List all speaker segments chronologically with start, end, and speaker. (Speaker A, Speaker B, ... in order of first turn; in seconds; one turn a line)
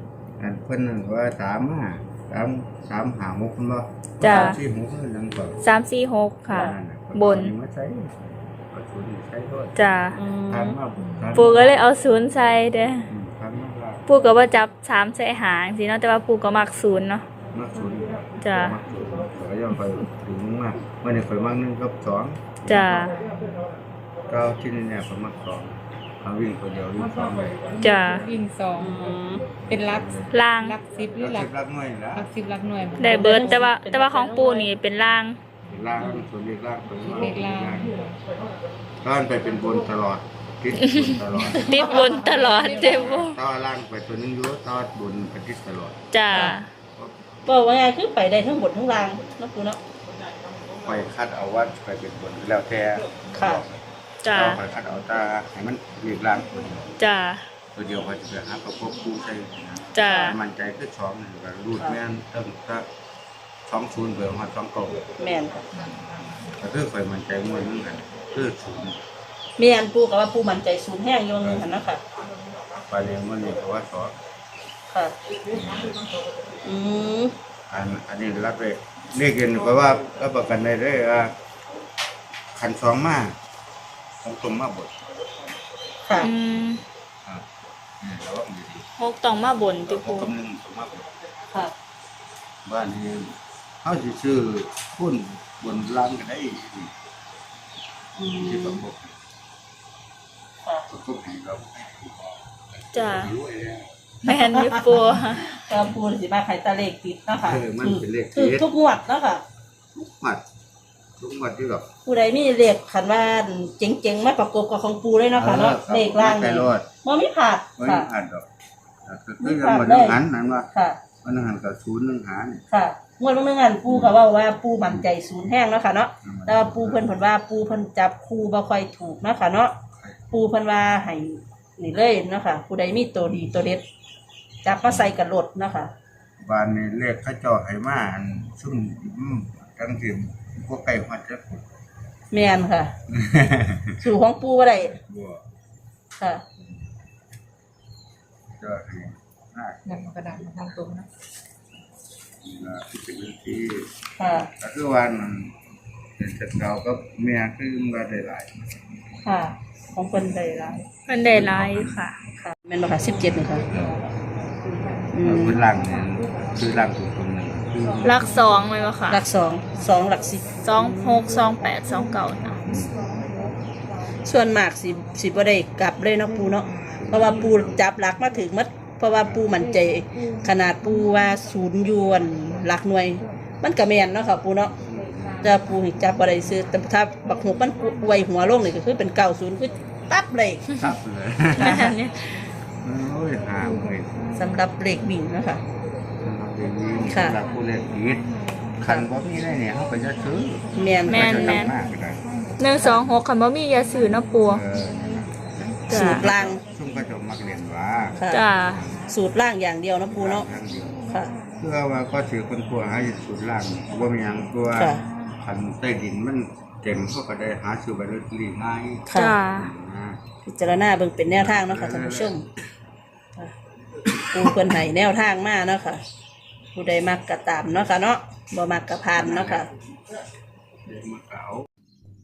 Speaker A: 0.4-5.6
Speaker B: 4.2-4.6
Speaker C: 4.2-4.5
Speaker B: 5.6-7.5
Speaker A: 6.5-9.8
Speaker B: 9.7-10.2
Speaker C: 10.1-10.8
Speaker A: 10.5-11.8
Speaker B: 11.3-13.1
Speaker A: 13.1-14.1
Speaker B: 14.1-17.2
Speaker A: 17.5-23.1
Speaker B: 18.4-18.8
Speaker B: 22.6-23.1
Speaker A: 24.3-27.9
Speaker B: 27.8-28.2
Speaker D: 28.2-29.0
Speaker C: 28.8-29.6
Speaker A: 29.6-30.4
Speaker D: 29.6-31.5
Speaker B: 30.3-30.8
Speaker A: 31.1-32.3
Speaker D: 32.1-33.6
Speaker B: 33.0-35.4
Speaker C: 33.0-34.7
Speaker A: 35.7-38.0
Speaker D: 37.1-38.2
Speaker A: 39.0-42.0
Speaker B: 40.9-43.4
Speaker A: 42.7-46.0
Speaker B: 46.1-46.7
Speaker C: 46.3-46.5
Speaker C: 47.5-49.8
Speaker A: 50.8-53.7
Speaker C: 53.3-53.6
Speaker B: 54.2-54.6
Speaker A: 54.3-56.9
Speaker B: 57.0-57.5
Speaker A: 57.7-62.8
Speaker B: 59.9-60.4
Speaker A: 63.7-65.0
Speaker C: 65.2-65.6
Speaker A: 66.5-69.0
Speaker C: 69.6-72.0
Speaker A: 71.4-71.7
Speaker A: 72.9-74.2
Speaker C: 74.9-75.2
Speaker A: 75.5-76.0
Speaker C: 76.6-77.3
Speaker A: 77.7-81.3
Speaker A: 82.5-83.3
Speaker A: 84.2-84.9
Speaker C: 86.1-86.3
Speaker B: 86.2-86.8
Speaker A: 88.0-88.8
Speaker B: 89.0-90.3
Speaker A: 89.8-91.1
Speaker A: 92.6-96.9
Speaker C: 98.2-98.8
Speaker A: 98.4-99.1
Speaker A: 100.9-103.9
Speaker B: 102.9-103.3
Speaker B: 104.2-105.5
Speaker C: 104.2-109.4
Speaker A: 107.3-108.7
Speaker A: 110.0-110.4
Speaker A: 111.2-111.9
Speaker C: 112.0-118.1
Speaker A: 115.3-116.9
Speaker A: 117.8-118.5
Speaker A: 119.0-120.7
Speaker C: 119.4-120.2
Speaker C: 120.7-121.0
Speaker A: 121.2-122.6
Speaker C: 122.7-129.7
Speaker A: 123.9-124.1
Speaker A: 126.2-127.2
Speaker A: 129.9-130.2
Speaker C: 130.3-133.8
Speaker C: 134.6-135.9
Speaker A: 134.8-135.2
Speaker A: 136.4-141.7
Speaker C: 142.3-142.9
Speaker A: 143.1-144.0
Speaker C: 144.0-144.9
Speaker A: 144.9-145.4
Speaker C: 146.2-146.4
Speaker A: 148.5-150.9
Speaker D: 149.8-151.1
Speaker A: 152.4-153.9
Speaker C: 154.2-154.5
Speaker A: 154.6-155.5
Speaker A: 156.2-158.5
Speaker C: 159.2-160.9
Speaker B: 161.1-162.2
Speaker A: 161.2-162.0
Speaker C: 162.4-163.7
Speaker A: 163.2-164.0
Speaker C: 165.1-165.6
Speaker A: 165.2-168.3
Speaker B: 168.0-169.2
Speaker C: 169.1-171.2
Speaker B: 170.6-172.7
Speaker A: 172.6-172.9
Speaker C: 174.2-184.7
Speaker A: 176.9-177.8
Speaker A: 179.2-179.5
Speaker A: 184.6-185.5
Speaker C: 185.4-190.7
Speaker A: 190.8-192.0
Speaker C: 191.6-192.0
Speaker B: 191.6-192.2
Speaker A: 192.7-194.1
Speaker C: 194.3-195.6
Speaker A: 196.2-202.2
Speaker C: 197.0-197.4
Speaker C: 200.7-201.7
Speaker B: 201.1-201.7
Speaker B: 202.6-204.6
Speaker A: 204.4-209.0
Speaker B: 205.9-206.3
Speaker C: 205.9-206.6
Speaker C: 208.2-208.4
Speaker B: 208.3-208.9
Speaker C: 209.1-210.5
Speaker A: 210.1-211.0
Speaker A: 211.6-220.2
Speaker C: 214.7-215.0
Speaker C: 219.1-219.4
Speaker B: 219.1-219.7
Speaker C: 220.4-222.4
Speaker A: 221.3-222.4
Speaker C: 224.3-226.0
Speaker C: 226.7-229.7
Speaker A: 229.2-229.7
Speaker A: 230.8-231.7